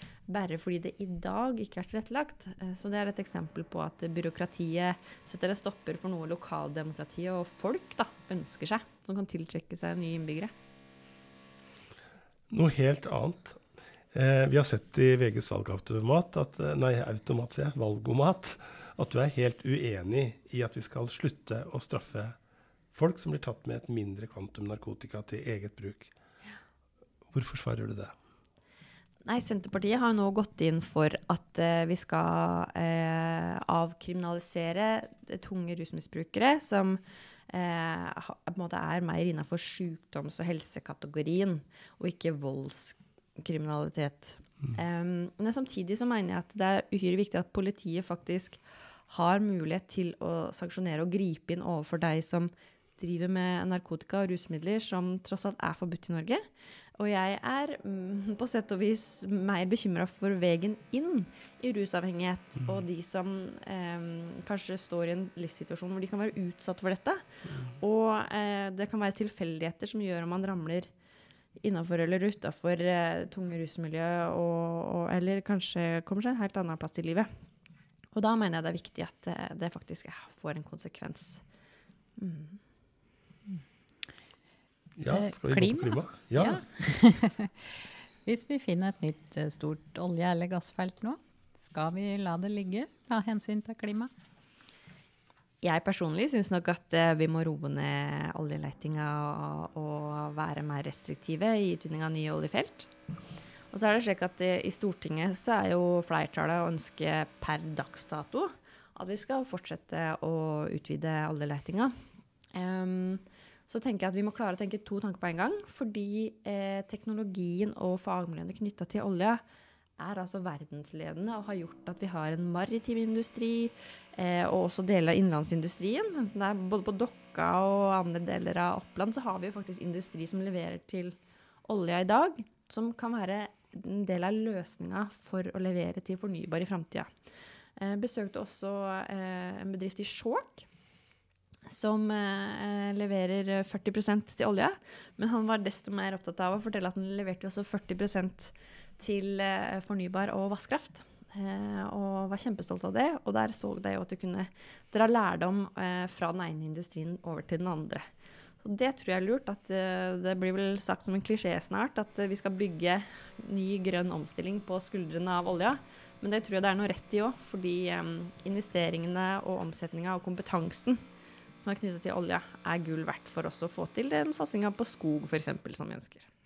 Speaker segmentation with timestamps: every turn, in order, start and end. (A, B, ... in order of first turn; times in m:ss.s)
0:00.3-0:10.5 A
0:12.5-0:22.4 B
0:22.9-0:26.1 B
0:27.3-0:28.1 B
0:29.2-0:56.4 A
0:57.0-1:07.2 A
1:07.4-1:07.8 B
1:07.8-1:10.9 A
1:11.6-1:17.3 A
1:18.1-1:21.4 A
1:22.2-1:22.6 A
1:25.0-1:26.6 B
1:25.1-1:34.1 C
1:35.6-1:42.9 A
1:43.7-1:51.9 A
1:52.5-1:59.4 A
2:00.0-2:17.1 A
2:17.8-2:20.6 A
2:21.7-2:38.0 A
2:38.6-2:51.0 A
2:51.6-2:56.3 A